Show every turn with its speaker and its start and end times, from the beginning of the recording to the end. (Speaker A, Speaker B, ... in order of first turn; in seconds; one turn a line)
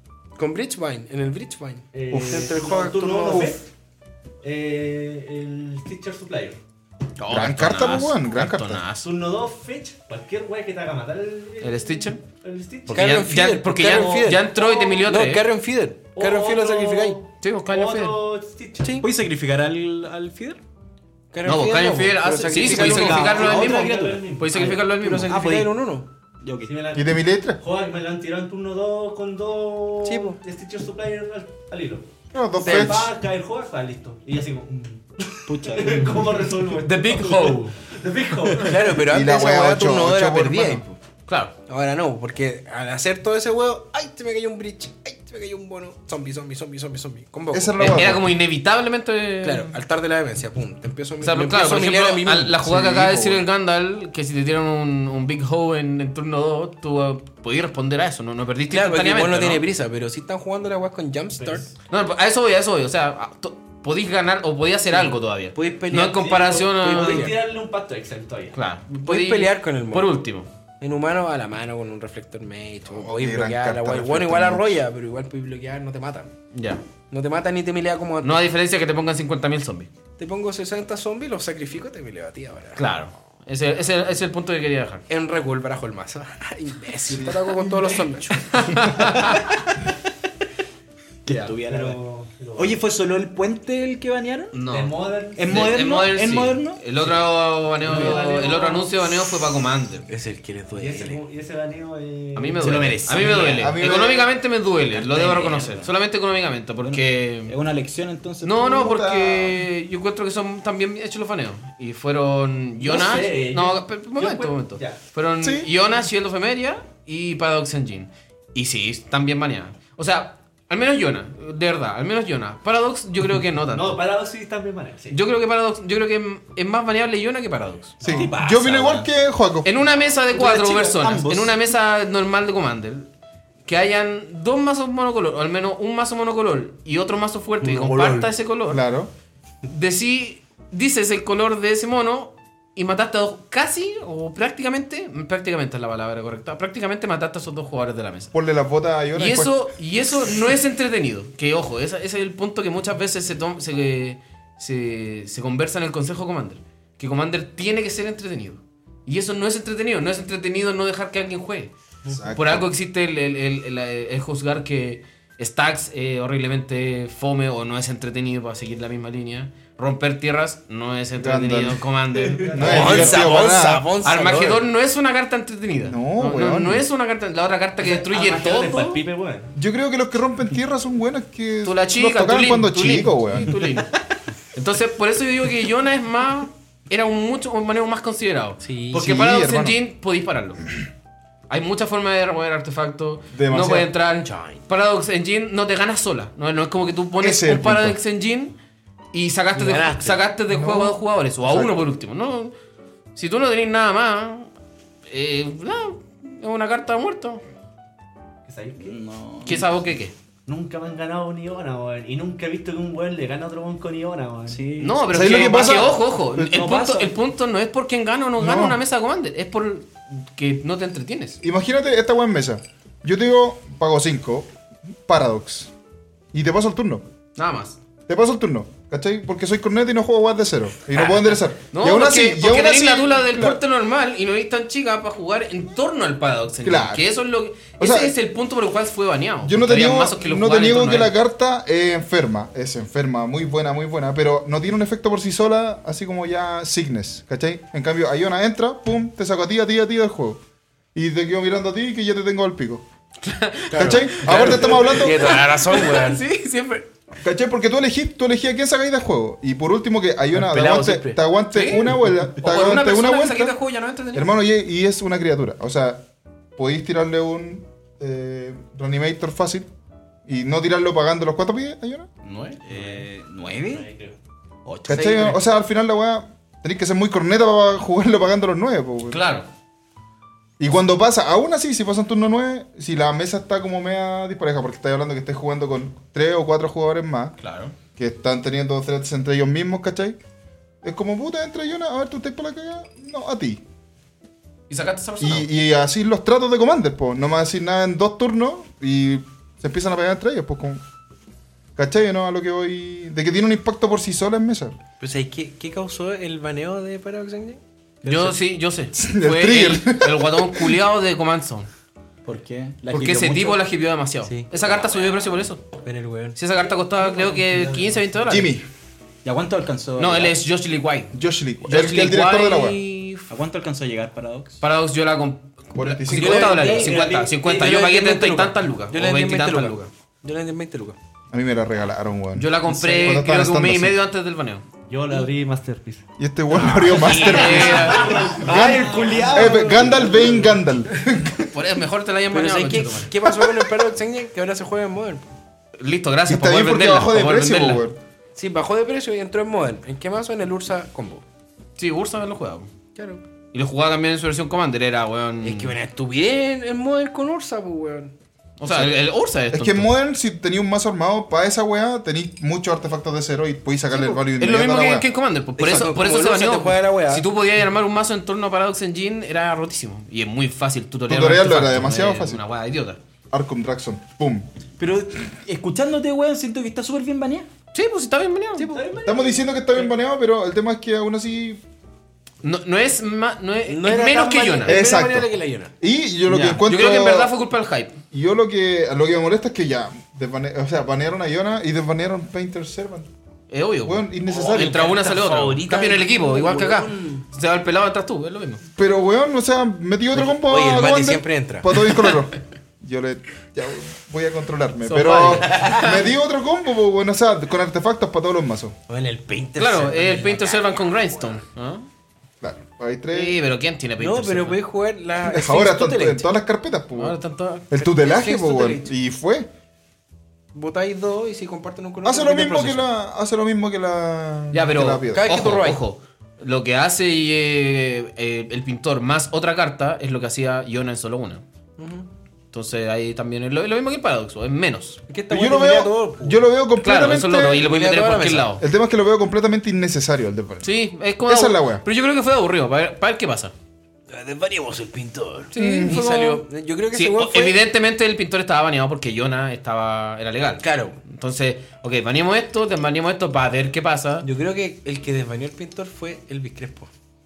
Speaker A: 0.4-3.6
Speaker B: 1.9-3.7
Speaker B: 4.4-6.6
Speaker C: 7.2-9.1
Speaker D: 7.3-8.8
Speaker B: 9.0-13.2
Speaker C: 11.6-12.2
Speaker C: 12.9-15.5
Speaker A: 12.9-17.2
Speaker B: 13.8-15.1
Speaker B: 16.1-19.1
Speaker C: 17.4-18.2
Speaker A: 18.8-19.1
Speaker E: 19.0-20.6
Speaker A: 21.3-23.4
Speaker C: 21.4-25.4
Speaker E: 22.5-25.8
Speaker B: 22.8-24.8
Speaker A: 24.9-26.1
Speaker E: 26.4-26.7
Speaker B: 26.6-32.1
Speaker D: 26.9-27.6
Speaker A: 30.0-30.4
Speaker D: 32.3-33.1
Speaker B: 32.6-38.9
Speaker A: 32.6-33.0
Speaker E: 35.5-36.4
Speaker C: 36.8-37.8
Speaker A: 38.6-40.9
Speaker D: 39.0-40.8
Speaker C: 41.3-41.5
Speaker A: 41.7-48.0
Speaker D: 47.5-48.3
Speaker C: 47.8-49.7
Speaker A: 49.4-52.6
Speaker C: 51.2-59.6
Speaker D: 52.6-53.4
Speaker A: 58.7-61.7
Speaker B: 61.4-61.7
Speaker C: 61.9-67.3
Speaker A: 65.0-67.4
Speaker B: 66.1-68.6
Speaker C: 68.5-70.5
Speaker A: 69.0-70.1
Speaker A: 70.8-76.3
Speaker D: 72.9-74.8
Speaker C: 76.5-76.8
Speaker A: 77.1-78.4
Speaker C: 78.2-79.9
Speaker A: 80.2-82.8
Speaker C: 82.8-85.0
Speaker A: 85.1-89.0
Speaker D: 87.1-87.7
Speaker C: 88.5-89.5
Speaker E: 88.9-89.4
Speaker E: 91.2-92.0
Speaker B: 91.6-92.8
Speaker E: 92.6-94.6
Speaker C: 94.5-100.1
Speaker B: 94.7-95.6
Speaker E: 95.4-97.2
Speaker B: 97.8-99.0
Speaker A: 100.1-101.2
Speaker B: 100.8-103.4
Speaker C: 102.4-107.5
Speaker E: 102.6-103.8
Speaker D: 103.6-104.3
Speaker E: 104.9-105.9
Speaker E: 106.8-108.9
Speaker C: 108.4-124.0
Speaker D: 108.7-109.6
Speaker B: 112.8-115.0
Speaker D: 115.4-115.7
Speaker B: 123.7-125.2
Speaker C: 125.1-128.0
Speaker B: 128.0-128.3
Speaker D: 128.0-129.7
Speaker E: 128.0-129.1
Speaker C: 129.6-133.1
Speaker E: 130.3-131.6
Speaker C: 133.6-138.8
Speaker E: 137.6-138.3
Speaker D: 138.7-139.1
Speaker C: 139.6-148.3
Speaker D: 148.3-149.7
Speaker C: 149.1-161.7
Speaker D: 162.1-162.7
Speaker C: 162.3-173.2
Speaker D: 171.1-171.8
Speaker B: 172.1-173.2
Speaker D: 172.5-173.8
Speaker A: 172.6-174.6
Speaker C: 174.0-179.0
Speaker D: 175.8-176.9
Speaker B: 177.8-179.5
Speaker D: 179.6-183.6
Speaker C: 181.6-183.9
Speaker C: 184.6-190.7
Speaker A: 188.6-189.1
Speaker D: 188.9-189.8
Speaker C: 191.5-198.6
Speaker D: 193.3-193.9
Speaker A: 194.2-194.6
Speaker D: 197.2-198.0
Speaker C: 199.1-202.5
Speaker A: 199.6-200.2
Speaker D: 200.5-201.8
Speaker C: 203.1-204.5
Speaker C: 205.1-207.4
Speaker B: 208.5-208.9
Speaker E: 208.8-209.7
Speaker C: 209.4-210.1
Speaker B: 210.5-214.7
Speaker E: 214.5-215.7
Speaker C: 214.8-221.4
Speaker D: 215.1-216.0
Speaker E: 216.4-217.1
Speaker D: 218.4-218.8
Speaker D: 221.4-225.7
Speaker D: 226.3-227.0
Speaker C: 227.4-227.8
Speaker D: 228.1-233.6
Speaker C: 230.9-241.1
Speaker D: 236.6-237.1
Speaker D: 237.8-238.2
Speaker D: 239.4-250.4
Speaker D: 250.9-252.8
Speaker C: 253.2-256.9
Speaker A: 253.7-256.2
Speaker D: 253.7-255.4
Speaker D: 257.2-263.6
Speaker A: 260.3-261.2
Speaker C: 261.5-264.3
Speaker D: 264.1-266.1
Speaker D: 266.6-269.7
Speaker D: 270.3-272.1
Speaker C: 272.2-273.0
Speaker E: 272.6-273.9
Speaker A: 274.7-275.4
Speaker E: 274.9-275.1
Speaker D: 274.9-279.2
Speaker C: 274.9-275.3
Speaker C: 279.1-279.5
Speaker D: 280.6-287.4
Speaker C: 287.4-287.7
Speaker D: 288.0-290.2
Speaker D: 290.8-293.6
Speaker C: 294.7-295.5
Speaker D: 295.2-300.8
Speaker D: 301.8-304.8
Speaker A: 305.0-308.3
Speaker C: 308.1-311.7
Speaker D: 308.9-310.8
Speaker E: 312.2-313.6
Speaker C: 312.9-315.6
Speaker A: 314.2-314.5
Speaker A: 315.8-316.4
Speaker C: 316.4-318.6
Speaker D: 318.3-318.6
Speaker E: 319.2-320.4
Speaker C: 320.0-323.3
Speaker D: 321.1-322.8
Speaker E: 323.3-324.6
Speaker C: 324.6-329.9
Speaker D: 325.8-326.6
Speaker A: 326.1-331.0
Speaker B: 326.6-327.7
Speaker D: 331.3-334.0
Speaker C: 332.4-334.6
Speaker B: 334.9-336.1
Speaker D: 336.2-341.5
Speaker E: 336.8-340.6
Speaker C: 336.9-338.4
Speaker B: 337.3-339.1
Speaker A: 338.5-339.9
Speaker C: 341.5-343.1
Speaker A: 342.3-345.3
Speaker C: 345.8-347.8
Speaker D: 346.3-348.0
Speaker A: 348.4-351.2
Speaker C: 351.8-352.7
Speaker A: 352.9-353.2
Speaker C: 353.5-355.8
Speaker A: 355.4-358.1
Speaker C: 358.6-359.9
Speaker D: 358.7-358.9
Speaker D: 359.5-365.1
Speaker C: 364.2-373.0
Speaker A: 365.6-367.3
Speaker D: 371.1-372.4
Speaker D: 373.3-374.5
Speaker E: 374.8-377.5
Speaker C: 377.7-378.7
Speaker A: 378.6-379.0
Speaker B: 378.7-379.6
Speaker D: 379.0-381.6
Speaker C: 382.4-384.8
Speaker A: 383.7-385.7
Speaker D: 384.7-385.3
Speaker D: 385.8-387.3
Speaker C: 386.3-388.0
Speaker D: 388.1-393.1
Speaker C: 393.5-398.6
Speaker D: 393.8-394.9
Speaker E: 394.3-397.2
Speaker D: 398.8-408.8
Speaker A: 400.1-401.8
Speaker C: 404.9-406.1
Speaker A: 405.5-405.8
Speaker A: 408.9-411.4
Speaker C: 409.6-411.9
Speaker D: 412.4-413.4
Speaker C: 413.1-414.6
Speaker A: 414.0-416.3
Speaker D: 415.2-417.2
Speaker C: 417.0-417.7
Speaker D: 417.7-419.5
Speaker A: 417.8-418.9
Speaker A: 420.5-422.9
Speaker D: 422.1-425.4
Speaker C: 424.5-431.4
Speaker A: 425.1-425.8
Speaker A: 431.8-432.1
Speaker C: 432.5-435.0
Speaker A: 435.1-436.4
Speaker D: 435.3-437.7
Speaker C: 436.8-438.6
Speaker A: 437.6-438.6
Speaker D: 438.6-440.7
Speaker C: 440.6-443.5
Speaker D: 441.2-441.8
Speaker A: 444.1-447.6
Speaker C: 445.5-446.2
Speaker D: 445.6-446.4
Speaker C: 446.9-454.3
Speaker A: 450.6-451.0
Speaker A: 454.2-456.9